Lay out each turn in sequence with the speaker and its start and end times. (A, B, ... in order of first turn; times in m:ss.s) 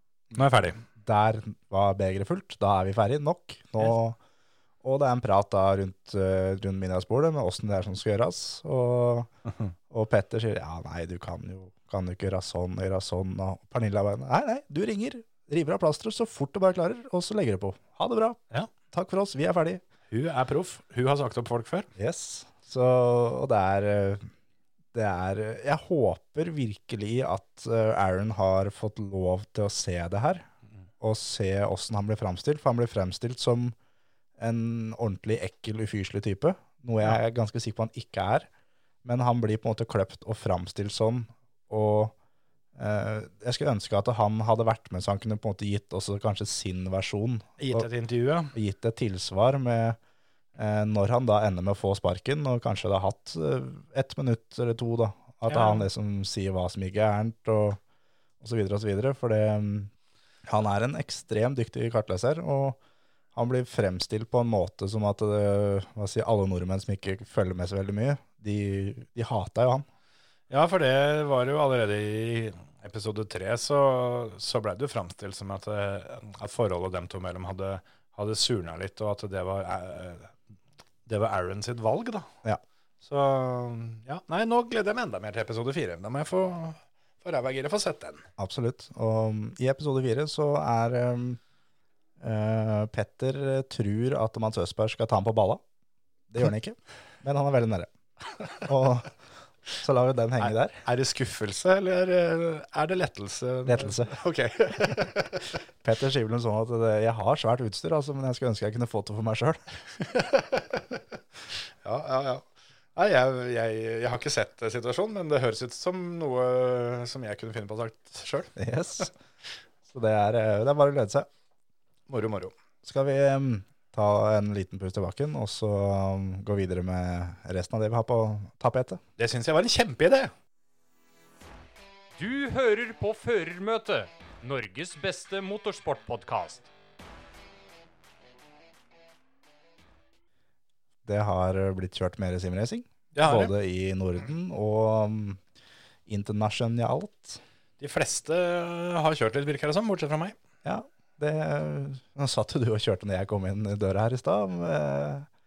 0:00.3-0:04.2 A
0:00.4-0:00.8 B
0:04.8-0:09.3 A
0:09.9-0:19.8 A
0:20.1-0:21.9 B
0:22.0-0:24.3 A
0:24.9-0:30.5 A
0:31.0-0:33.8 A
0:34.4-0:38.5 A
0:39.0-0:42.1 A
0:42.8-0:47.9 A
0:47.6-0:48.5 B
0:48.5-0:50.0 A
0:50.6-0:57.8 A
0:55.5-0:55.9 B
0:58.4-0:59.9 A
1:00.5-1:02.8 A
1:03.4-1:09.8 A
1:10.5-1:20.4 B
1:21.1-1:22.3 B
1:23.0-1:28.2 B
1:28.4-1:31.4 A
1:32.2-1:35.6 A
1:36.3-1:37.9 A
1:38.6-1:39.2 A
1:39.7-1:40.8 A
1:40.4-1:45.6 B
1:43.7-1:44.1 A
1:45.8-1:49.6 A
1:50.0-1:59.1 B
1:58.6-1:59.1 A
1:59.9-2:01.3 A
2:02.1-2:02.5 B
2:02.8-2:09.0 A
2:09.2-2:10.3 B
2:12.2-2:16.7 C
2:21.0-2:25.4 A
2:23.1-2:23.5 B
2:26.1-2:27.4 A
2:27.8-2:30.4 B
2:30.6-2:35.3 A